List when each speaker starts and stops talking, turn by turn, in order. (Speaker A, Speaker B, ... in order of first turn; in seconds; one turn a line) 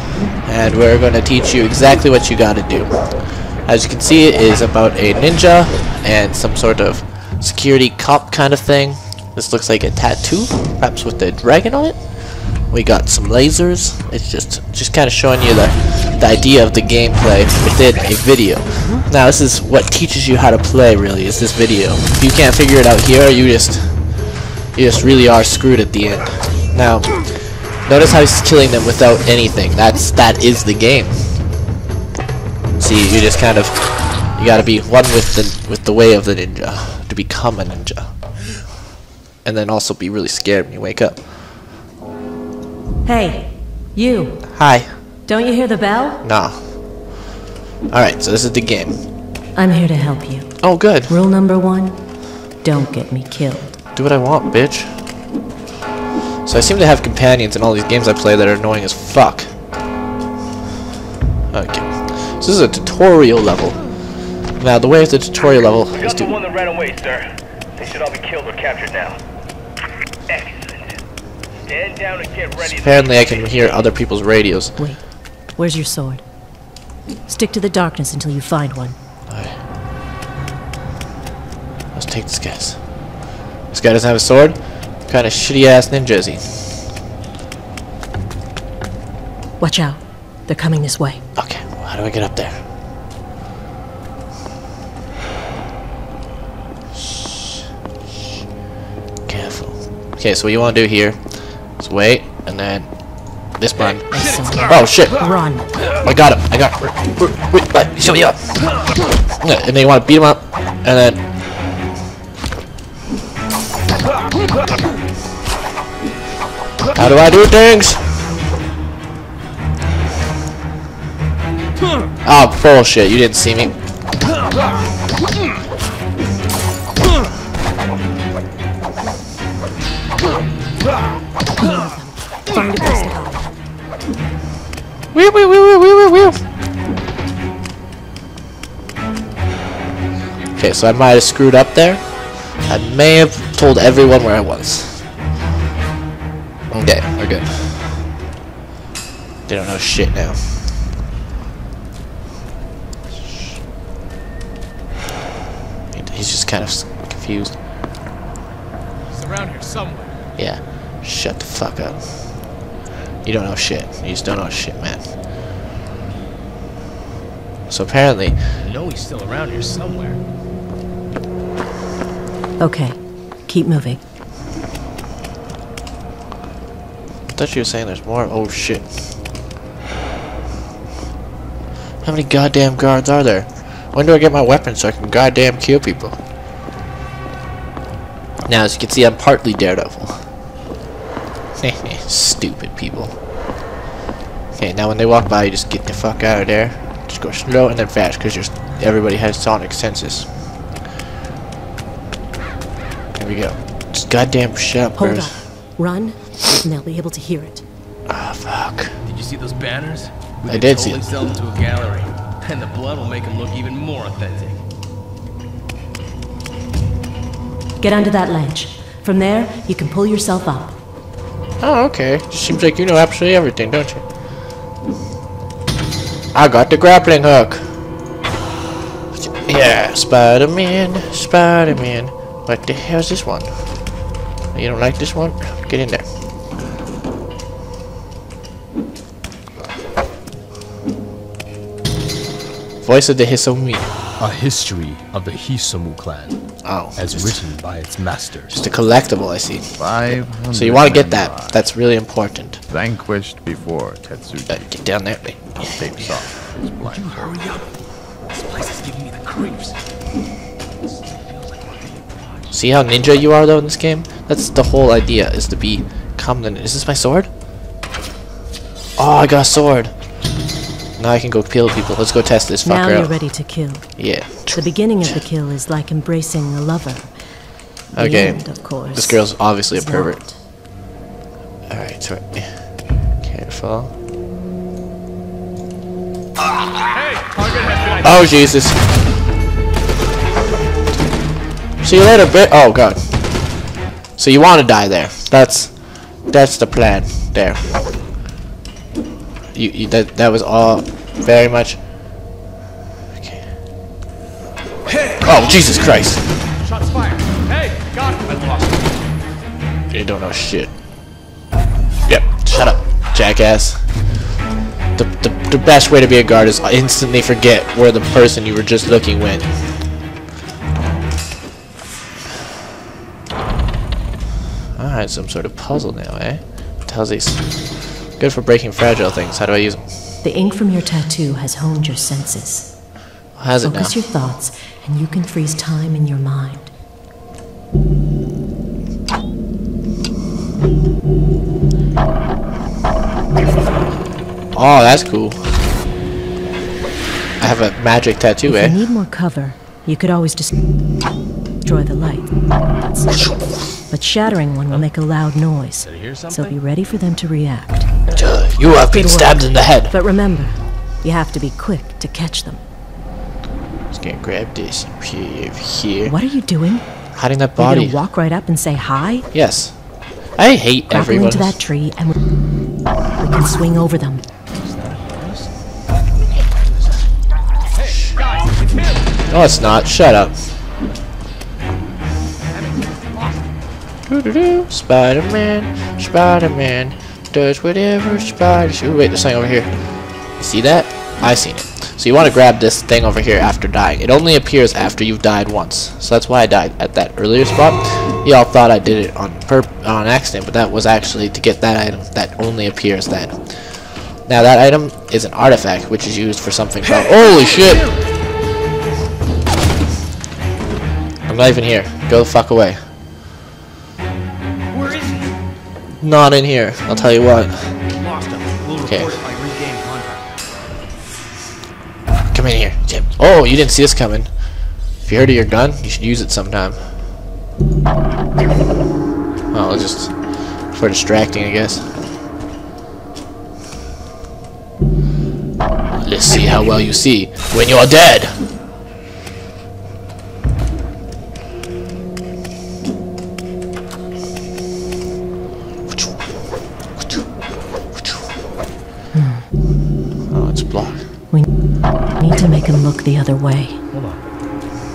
Speaker A: 0.4-31.3
Speaker A: 32.8-38.1
Speaker A: 39.4-41.3
Speaker B: 43.0-44.6
Speaker A: 44.5-44.9
Speaker B: 45.3-46.3
Speaker A: 46.2-47.1
Speaker A: 47.9-49.0
Speaker B: 49.5-53.8
Speaker A: 50.6-51.2
Speaker A: 54.0-55.0
Speaker A: 56.5-59.5
Speaker A: 61.5-63.8
Speaker A: 64.6-66.4
Speaker C: 66.0-69.2
Speaker C: 70.3-70.9
Speaker C: 71.7-73.0
Speaker A: 72.6-74.8
Speaker B: 74.8-76.2
Speaker B: 77.3-79.0
Speaker A: 79.3-79.6
Speaker A: 81.9-82.8
Speaker A: 83.7-86.7
Speaker B: 89.6-91.2
Speaker A: 91.4-92.6
Speaker A: 99.3-102.9
Speaker A: 103.6-105.3
Speaker B: 104.1-105.7
Speaker A: 105.9-108.7
Speaker A: 109.3-111.2
Speaker A: 116.9-118.3
Speaker A: 122.2-123.8
Speaker B: 131.6-133.5
Speaker A: 135.1-136.4
Speaker A: 140.6-145.0
Speaker A: 146.7-148.0
Speaker A: 149.5-150.7
Speaker A: 155.9-157.6
Speaker D: 159.1-160.2
Speaker A: 160.4-162.3
Speaker A: 163.2-165.0
Speaker A: 167.7-168.4
Speaker D: 168.6-170.2
Speaker B: 172.6-174.0
Speaker A: 177.3-178.9
Speaker A: 182.0-186.2
Speaker A: 188.5-190.3
Speaker A: 191.6-193.1
Speaker A: 194.6-200.3
Speaker A: 203.2-205.3
Speaker B: 205.0-207.6
Speaker A: 208.1-208.9
Speaker E: 209.1-211.9
Speaker D: 209.3-209.9
Speaker A: 210.4-211.1
Speaker D: 210.7-214.6
Speaker E: 212.9-214.0
Speaker B: 217.8-220.8
Speaker A: 221.6-224.0
Speaker A: 226.3-227.7
Speaker A: 229.2-233.6
Speaker A: 234.5-236.1
Speaker A: 242.8-243.9
Speaker E: 244.2-246.4
Speaker A: 246.6-247.4
Speaker E: 247.0-248.7
Speaker A: 248.5-252.6
Speaker F: 249.8-251.7
Speaker F: 252.7-254.7
Speaker A: 254.5-256.1
Speaker F: 255.6-257.4
Speaker D: 256.8-257.7
Speaker D: 258.3-259.8
Speaker D: 261.2-262.2
Speaker A: 262.5-267.3
Speaker A: 269.0-269.9
Speaker A: 271.0-273.2
Speaker B: 272.6-277.1
Speaker A: 274.0-275.2
Speaker B: 277.9-280.4
Speaker A: 277.9-280.3
Speaker A: 281.7-282.7
Speaker A: 283.2-283.9
Speaker A: 287.9-288.8
Speaker A: 291.8-293.1
Speaker A: 294.2-297.7
Speaker A: 299.5-301.8
Speaker A: 303.2-303.5
Speaker A: 305.2-306.3
Speaker C: 307.9-308.8
Speaker A: 309.9-310.7
Speaker A: 312.1-313.9
Speaker A: 315.0-319.5
Speaker A: 324.8-330.1
Speaker B: 330.2-332.8
Speaker A: 333.4-334.0
Speaker B: 333.6-336.7
Speaker A: 344.5-345.4
Speaker A: 347.4-348.8
Speaker B: 348.4-350.5
Speaker B: 351.6-353.3
Speaker B: 353.8-357.9
Speaker E: 355.8-356.4
Speaker D: 356.2-356.5
Speaker A: 358.1-359.9
Speaker B: 358.9-362.6
Speaker A: 363.9-366.2
Speaker B: 366.1-366.9
Speaker A: 367.1-368.0
Speaker B: 367.6-369.3
Speaker A: 369.3-369.8
Speaker A: 370.3-371.6
Speaker B: 370.9-372.2
Speaker B: 373.2-374.2
Speaker D: 374.9-375.5
Speaker A: 377.8-378.2
Speaker A: 379.3-380.4
Speaker A: 384.1-389.7
Speaker A: 390.4-407.9
Speaker A: 411.3-412.8
Speaker C: 414.7-415.3
Speaker A: 416.0-417.7
Speaker C: 417.9-420.3
Speaker A: 418.8-419.2
Speaker A: 422.3-424.3
Speaker A: 425.0-426.9
Speaker A: 429.5-432.0
Speaker A: 436.0-438.4
Speaker A: 445.9-446.2
Speaker B: 449.1-449.5
Speaker A: 450.3-451.1
Speaker B: 452.1-453.8
Speaker E: 453.9-454.2